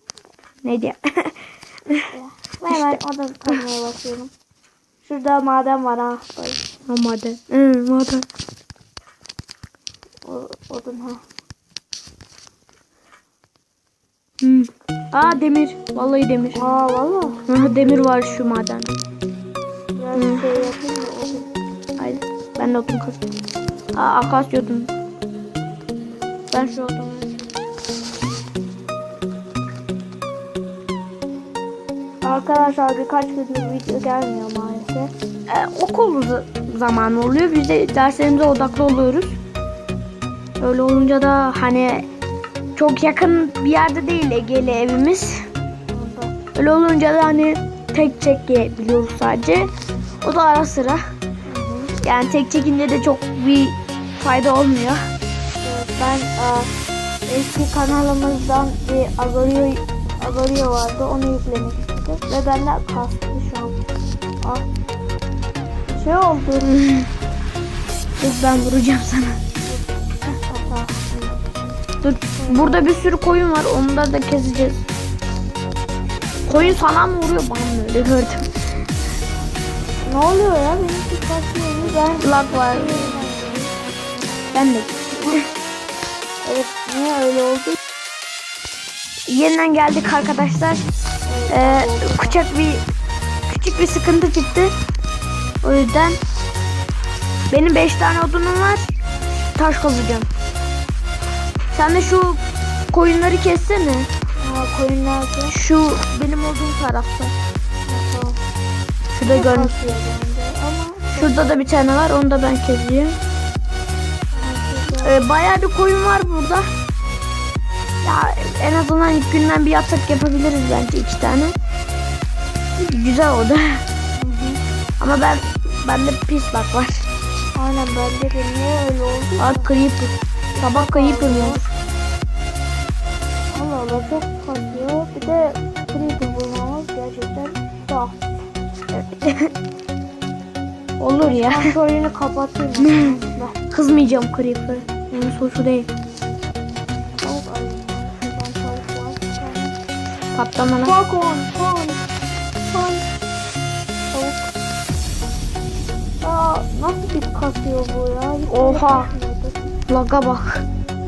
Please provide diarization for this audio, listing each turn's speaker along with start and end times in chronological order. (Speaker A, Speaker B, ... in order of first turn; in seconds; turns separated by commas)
Speaker A: 0.6-1.3, Speaker B: 2.1-4.3, Speaker A: 2.7-3.6, Speaker B: 5.0-6.6, Speaker A: 6.9-8.2, Speaker B: 10.2-11.2, Speaker A: 14.4-16.6, Speaker B: 16.5-17.4, Speaker A: 17.5-18.9, Speaker B: 19.9-21.5, Speaker A: 20.1-20.5, Speaker A: 22.0-23.3, Speaker A: 23.9-24.9, Speaker A: 26.5-27.4, Speaker B: 32.2-35.1, Speaker A: 35.5-39.4, Speaker A: 40.6-42.1, Speaker A: 42.8-45.5, Speaker B: 45.9-46.3, Speaker A: 46.5-49.7, Speaker A: 50.2-51.0, Speaker B: 51.5-51.9, Speaker A: 52.0-55.0, Speaker B: 55.6-56.7, Speaker B: 57.3-63.7, Speaker B: 64.4-64.7, Speaker B: 65.9-66.8, Speaker A: 66.8-67.0, Speaker A: 68.2-69.4, Speaker B: 69.6-71.4, Speaker A: 72.0-74.8, Speaker B: 72.4-72.8, Speaker A: 76.5-78.5, Speaker B: 76.5-76.8, Speaker B: 80.0-83.7, Speaker A: 82.2-83.1, Speaker A: 84.5-85.4, Speaker B: 86.4-87.8, Speaker A: 89.3-90.8, Speaker B: 91.3-92.4, Speaker A: 91.5-92.8, Speaker A: 93.5-94.7, Speaker A: 95.6-96.2, Speaker A: 97.5-98.9, Speaker A: 99.5-100.3, Speaker A: 101.7-104.1, Speaker B: 104.4-105.5, Speaker A: 105.5-107.3, Speaker B: 107.9-108.4, Speaker A: 109.1-109.8, Speaker B: 109.2-111.6, Speaker A: 111.2-113.2, Speaker B: 114.3-115.2, Speaker A: 115.0-116.7, Speaker A: 118.0-121.5, Speaker A: 122.8-123.8, Speaker B: 124.2-124.6, Speaker A: 125.0-127.1, Speaker B: 127.5-129.7, Speaker A: 129.4-131.7, Speaker B: 130.6-131.6, Speaker B: 133.5-138.2, Speaker A: 138.9-139.5, Speaker A: 141.0-141.7, Speaker B: 141.2-143.6, Speaker A: 142.8-143.2, Speaker A: 143.7-145.9, Speaker B: 147.2-149.7, Speaker A: 150.3-150.9, Speaker B: 150.8-152.0, Speaker B: 152.7-153.1, Speaker B: 154.1-154.5, Speaker B: 156.2-159.6, Speaker A: 158.5-159.1, Speaker A: 159.9-160.6